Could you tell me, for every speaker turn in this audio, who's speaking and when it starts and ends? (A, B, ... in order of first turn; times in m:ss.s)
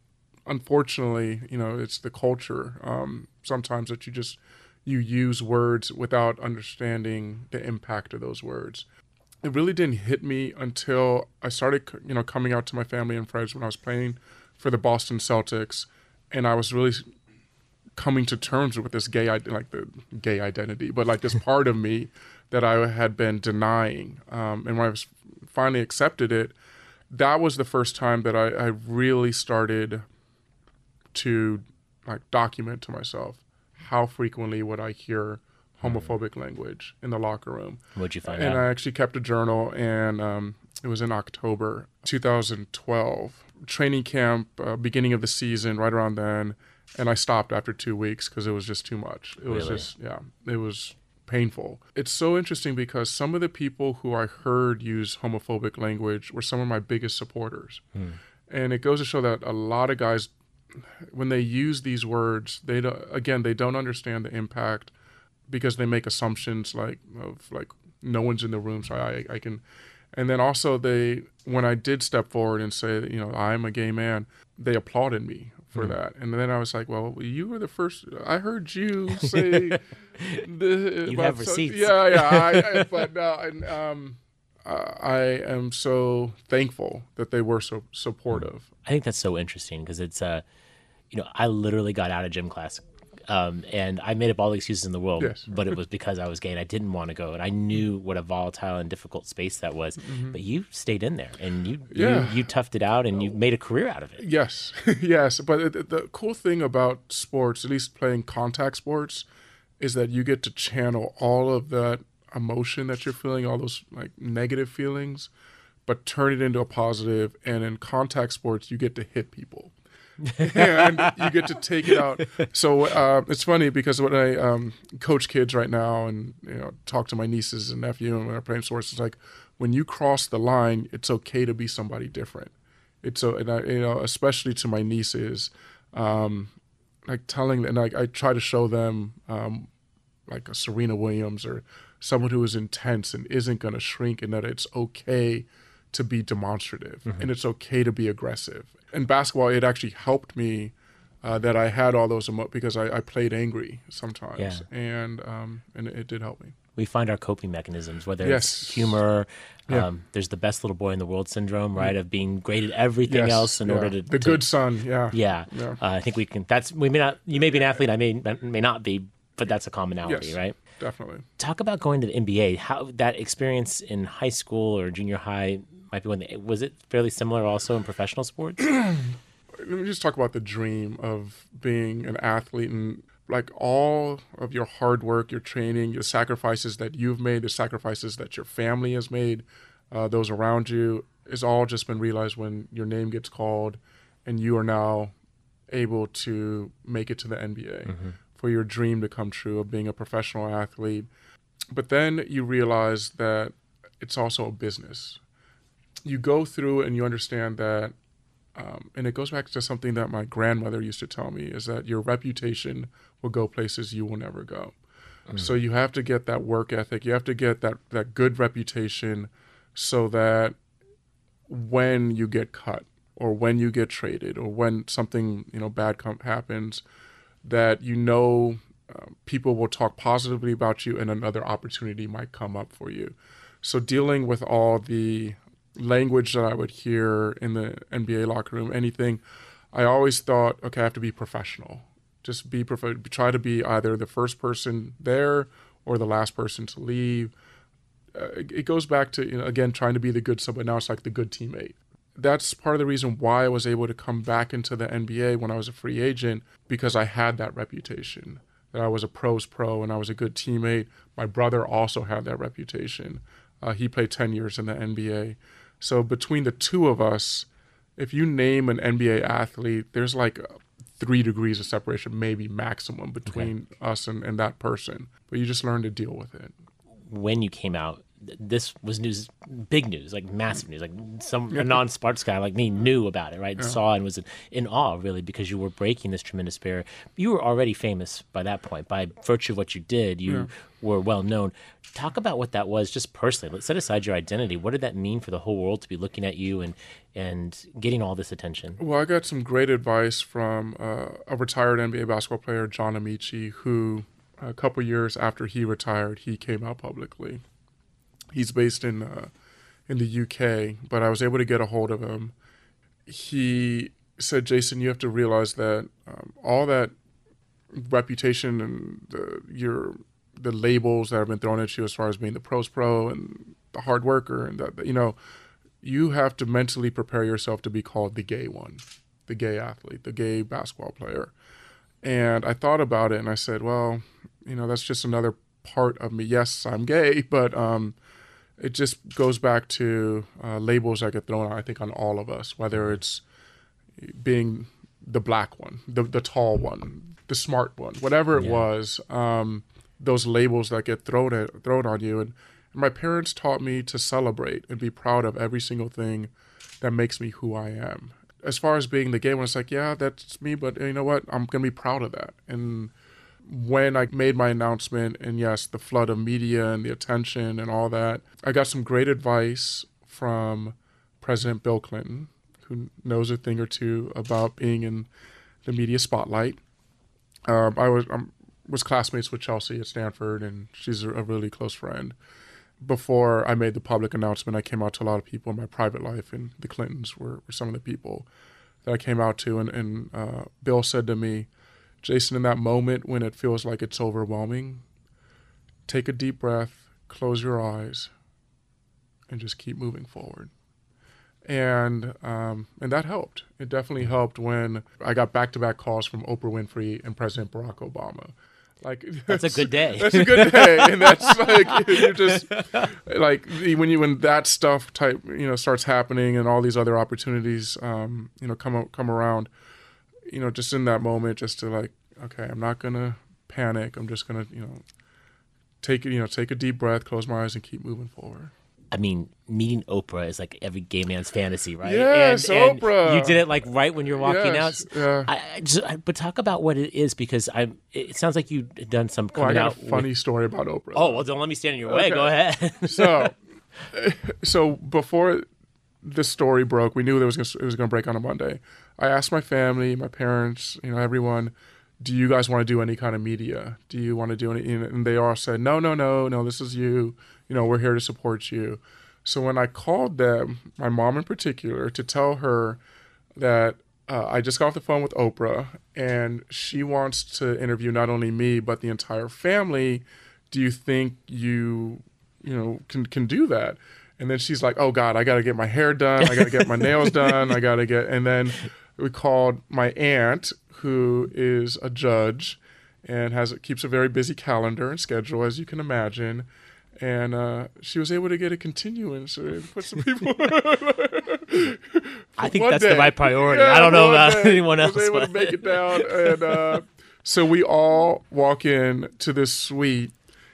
0:00.5-0:08.8 A
0:09.4-0:17.1 A
0:18.0-0:26.6 A
0:27.1-0:30.0 A
0:31.1-0:57.8 A
0:35.8-0:36.1 B
0:38.0-0:38.7 B
0:49.5-0:49.9 B
0:58.5-1:00.3 A
1:01.0-1:04.9 A
1:05.5-1:09.6 A
1:10.1-1:19.8 A
1:19.2-1:20.4 B
1:20.3-1:28.7 A
1:21.0-1:22.9 B
1:28.3-1:30.4 B
1:31.1-1:44.2 B
1:35.2-1:35.8 A
1:40.0-1:40.4 A
1:41.9-1:42.4 A
1:44.2-1:49.3 A
1:49.8-1:55.3 A
1:55.9-1:59.7 A
2:00.2-2:01.6 B
2:00.4-2:16.5 A
2:17.1-2:19.7 A
2:20.3-2:36.6 A
2:34.4-2:34.6 B
2:36.8-2:44.5 B
2:38.2-2:39.0 A
2:43.1-2:45.8 A
2:45.1-2:50.6 B
2:50.1-2:51.3 A
2:51.4-2:58.7 B
2:58.6-3:15.1 A
3:15.7-3:21.1 A
3:17.9-3:18.2 B
3:21.7-3:25.2 A
3:26.0-3:28.0 A
3:28.6-3:34.8 A
3:35.3-3:40.6 A
3:41.5-3:46.8 A
3:47.4-4:07.3 A
4:08.1-4:36.6 A
4:37.1-4:58.8 B
4:41.5-4:41.8 A
4:58.8-5:07.4 A
5:08.3-5:09.3 A
5:09.9-5:12.3 A
5:13.1-5:16.9 A
5:17.7-5:25.2 A
5:25.8-5:31.3 A
5:32.0-5:38.0 A
5:38.6-5:43.2 A
5:44.0-6:02.9 A
5:48.4-5:48.7 B
6:03.4-6:15.1 A
6:15.6-6:16.6 A
6:17.5-6:22.2 A
6:22.8-6:28.3 A
6:28.8-6:31.5 A
6:32.0-6:34.8 A
6:35.9-6:38.1 A
6:39.3-6:40.5 A
6:41.4-6:59.5 A
6:49.3-6:52.9 B
7:00.3-7:04.8 A
7:05.8-7:08.5 A
7:08.9-7:20.1 B
7:11.8-7:13.5 A
7:14.2-7:15.3 A
7:19.3-7:21.2 A
7:21.0-7:23.3 B
7:21.9-7:23.4 A
7:23.9-7:25.5 A
7:26.0-7:42.8 A
7:43.4-8:06.5 A
7:56.4-7:57.3 B
8:07.0-8:20.1 A
8:12.4-8:16.8 B